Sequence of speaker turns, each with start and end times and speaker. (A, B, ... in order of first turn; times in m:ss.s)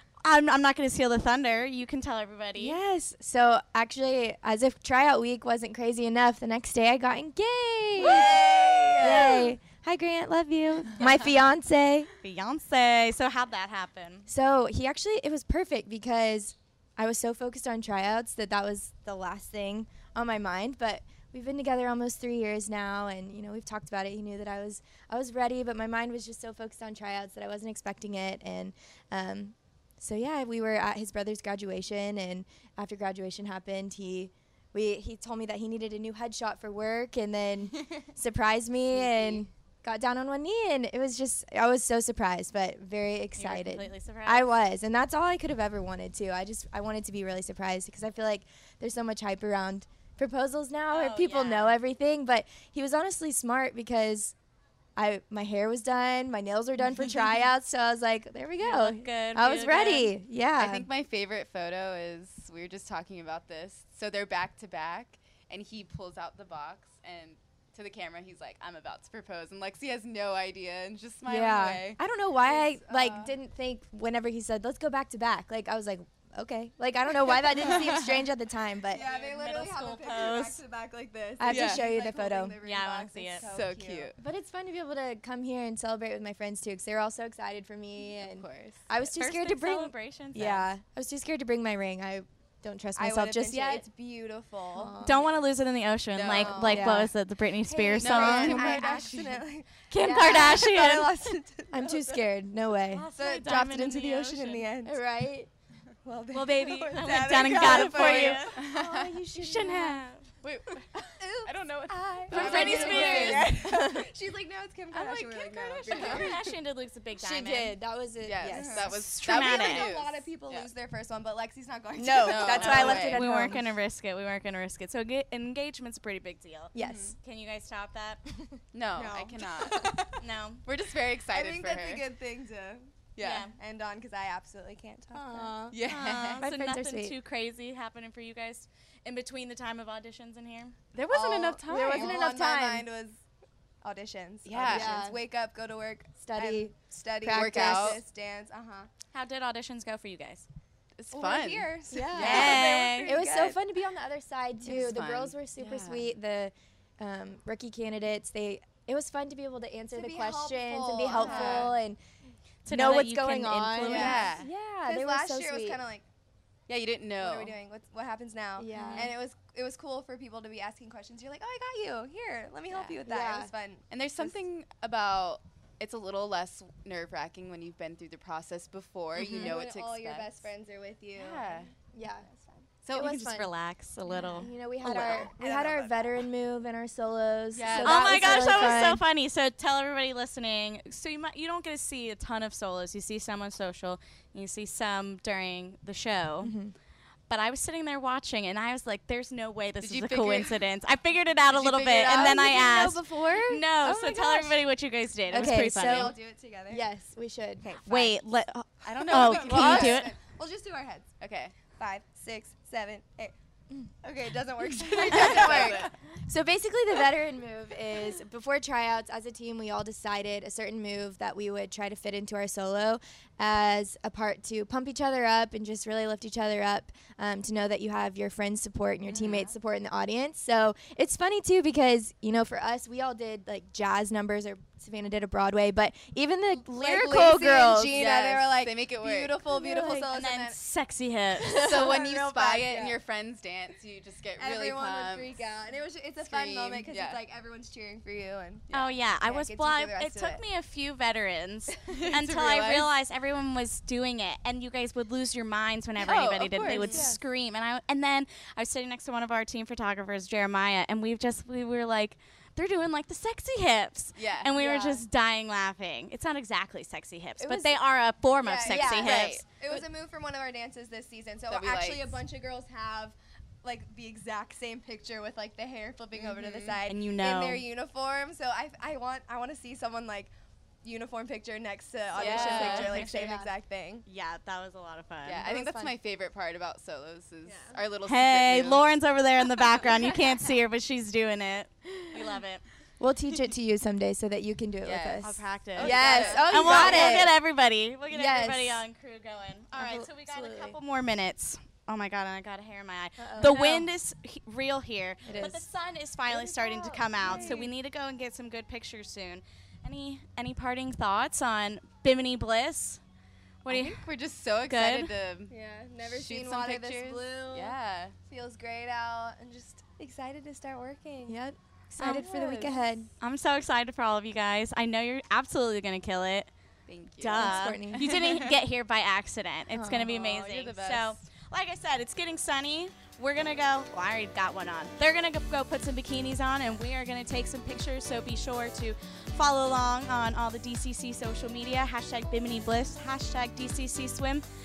0:00.2-0:02.8 A
0:02.6-0:12.1 B
0:08.0-0:09.5 C
0:12.2-0:14.3 A
0:14.3-0:54.4 B
0:43.4-0:44.5 A
0:50.9-0:51.8 A
0:55.0-1:00.9 B
0:58.6-1:00.1 A
1:00.6-1:12.0 C
1:11.3-1:19.1 B
1:12.3-1:13.4 D
1:17.3-1:18.0 D
1:17.6-1:18.1 C
1:18.9-1:24.1 D
1:18.9-1:19.3 C
1:19.1-1:20.6 A
1:21.4-1:22.6 B
1:21.4-1:21.8 C
1:22.6-1:23.5 A
1:23.4-1:24.2 C
1:24.2-1:33.8 B
1:28.2-1:28.8 C
1:29.0-1:30.7 A
1:33.0-1:35.0 D
1:34.7-1:35.4 B
1:35.0-1:38.8 A
1:36.1-1:36.8 C
1:36.3-1:36.9 D
1:36.6-1:37.1 B
1:37.6-1:39.1 B
1:38.0-1:39.4 C
1:38.2-1:42.2 D
1:39.9-1:41.1 A
1:40.0-1:40.6 B
1:41.7-1:43.1 B
1:42.9-1:44.7 A
1:43.2-1:45.0 D
1:44.8-1:45.5 B
1:46.0-1:48.5 D
1:46.3-1:48.5 A
1:47.4-1:50.0 B
1:47.7-1:49.2 C
1:49.3-1:50.3 A
1:50.4-1:53.5 C
1:51.0-1:56.4 D
1:52.3-1:53.7 A
1:52.3-1:54.1 B
1:54.9-1:57.8 A
1:55.9-1:56.3 C
1:55.9-1:56.3 B
1:57.2-1:59.1 B
1:58.2-2:00.7 C
1:58.4-2:03.2 D
1:58.8-1:59.9 A
2:02.0-2:03.7 B
2:02.2-2:03.2 C
2:02.6-2:08.2 A
2:06.7-2:07.1 B
2:06.8-2:07.2 C
2:08.4-2:10.2 B
2:08.7-2:10.0 C
2:10.2-2:10.6 A
2:10.6-2:12.0 C
2:11.3-2:12.9 D
2:13.2-2:13.5 C
2:13.2-2:13.5 A
2:13.6-2:15.6 D
2:15.1-2:15.8 B
2:15.7-2:16.5 C
2:15.8-2:20.8 A
2:16.4-2:17.2 B
2:20.9-2:22.2 C
2:21.1-2:23.2 D
2:21.1-2:22.9 B
2:23.8-2:28.9 D
2:24.5-2:25.0 C
2:24.7-2:25.2 B
2:26.2-2:28.0 B
2:27.3-2:28.0 C
2:29.1-2:30.5 A
2:31.0-2:32.9 C
2:31.1-2:33.6 D
2:31.9-2:42.0 B
2:32.2-2:33.2 A
2:34.6-2:36.1 C
2:39.9-2:41.8 D
2:41.1-2:41.8 C
2:42.6-2:44.2 A
2:42.7-2:45.8 B
2:43.9-2:44.4 D
2:43.9-2:44.5 C
2:44.9-2:46.0 D
2:46.7-2:47.6 C
2:47.2-2:54.3 D
2:48.6-2:49.1 B
2:48.7-2:49.1 A
2:52.7-2:53.0 C
2:53.0-2:53.5 B
2:53.9-3:00.5 C
2:59.2-2:59.5 A
2:59.4-3:01.7 D
3:01.2-3:01.7 C
3:01.9-3:02.3 B
3:02.2-3:02.7 D
3:02.8-3:03.3 C
3:02.9-3:03.5 B
3:03.0-3:05.3 A
3:04.3-3:09.0 B
3:05.0-3:06.2 D
3:07.5-3:08.9 C
3:07.8-3:16.5 A
3:16.4-3:16.8 B
3:17.3-3:26.1 A
3:19.8-3:20.5 C
3:21.5-3:23.0 C
3:22.0-3:23.5 D
3:22.6-3:23.6 B
3:25.3-3:26.2 B
3:25.4-3:26.9 D
3:26.7-3:28.1 B
3:27.6-3:28.1 D
3:27.8-3:30.1 A
3:28.8-3:30.1 C
3:29.0-3:31.1 D
3:31.2-3:31.6 C
3:31.7-3:33.3 D
3:34.0-3:35.9 D
3:35.0-3:58.0 B
3:35.0-3:35.9 C
3:49.1-3:49.5 C
3:56.7-4:00.6 D
3:57.9-3:59.4 C
3:59.6-4:00.1 B
4:00.1-4:01.6 A
4:01.4-4:03.0 D
4:01.6-4:05.5 C
4:04.4-4:10.4 D
4:06.2-4:07.2 C
4:08.7-4:29.4 A
4:11.9-4:12.9 C
4:16.0-4:17.1 C
4:16.6-4:17.1 D
4:16.7-4:17.1 B
4:24.2-4:24.5 C
4:24.6-4:25.0 B
4:27.4-4:27.8 B
4:28.4-4:40.3 D
4:28.7-4:29.5 C
4:31.5-4:32.2 C
4:36.1-4:36.8 C
4:36.9-4:37.6 A
4:40.8-4:44.0 D
4:42.2-4:43.1 C
4:42.2-4:43.1 A
4:42.3-4:43.5 B
4:44.1-4:45.5 A
4:45.2-4:48.9 C
4:45.4-4:45.9 B
4:47.5-4:47.8 D
4:48.1-4:52.6 A
4:49.8-4:50.2 C
4:53.0-4:57.3 B
4:54.8-4:57.2 C
4:55.2-5:13.0 A
4:55.9-4:57.3 D
4:58.1-4:58.8 B
4:59.8-5:00.8 B
5:03.2-5:03.9 B
5:05.2-5:05.7 B
5:06.7-5:07.7 B
5:07.2-5:07.7 D
5:07.2-5:07.6 C
5:13.6-5:14.0 A
5:13.7-5:15.5 C
5:14.7-5:15.1 A
5:15.5-5:21.4 D
5:16.1-5:18.2 C
5:21.3-5:23.1 B
5:22.0-5:22.3 A
5:22.2-5:22.8 D
5:23.2-5:26.5 A
5:26.9-5:28.5 C
5:27.2-5:44.5 A
5:27.4-5:28.1 B
5:29.7-5:30.1 B
5:30.1-5:31.2 C